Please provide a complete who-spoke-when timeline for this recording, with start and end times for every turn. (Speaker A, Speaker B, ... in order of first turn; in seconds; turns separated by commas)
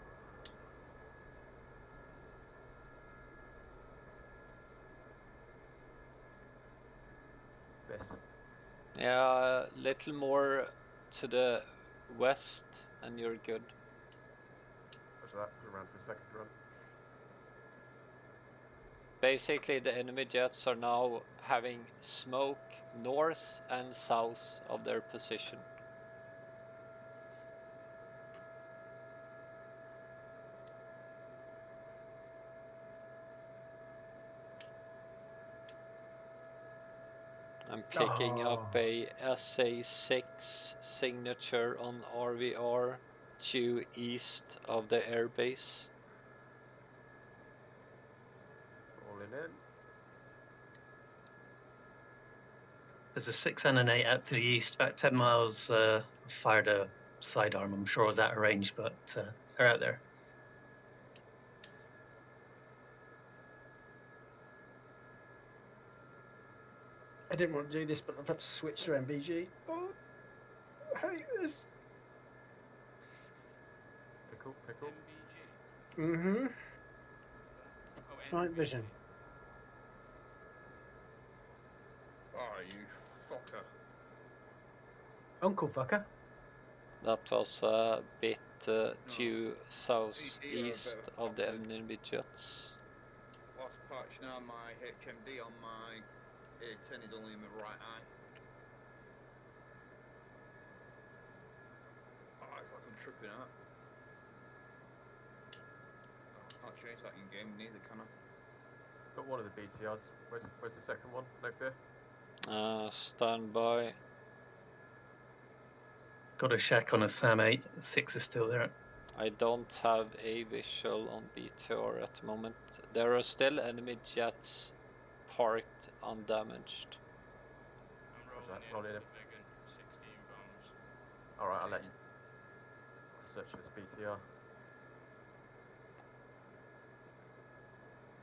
Speaker A: 7.8-8.2, Speaker B: 8.9-13.7, Speaker A: 15.2-16.5, Speaker B: 19.2-25.6, Speaker B: 37.6-45.9, Speaker C: 37.9-38.8, Speaker A: 49.0-49.6, Speaker D: 53.1-60.0, Speaker C: 67.3-70.0, Speaker C: 70.9-71.7, Speaker A: 74.3-75.0, Speaker E: 74.8-75.7, Speaker C: 76.0-76.6, Speaker E: 77.4-79.0, Speaker C: 78.3-78.9, Speaker F: 82.3-83.7, Speaker C: 85.4-86.1, Speaker B: 87.0-92.8, Speaker F: 89.0-89.4, Speaker F: 90.1-91.7, Speaker F: 93.5-96.0, Speaker F: 96.6-98.1, Speaker F: 102.4-103.5, Speaker F: 106.3-108.1, Speaker A: 109.1-111.8, Speaker B: 112.4-114.0, Speaker D: 116.4-118.7, Speaker B: 119.1-124.7, Speaker B: 125.3-127.0, Speaker E: 128.1-130.8, Speaker A: 128.3-129.1, Speaker A: 131.4-131.9, Speaker F: 131.6-131.9, Speaker A: 133.1-134.3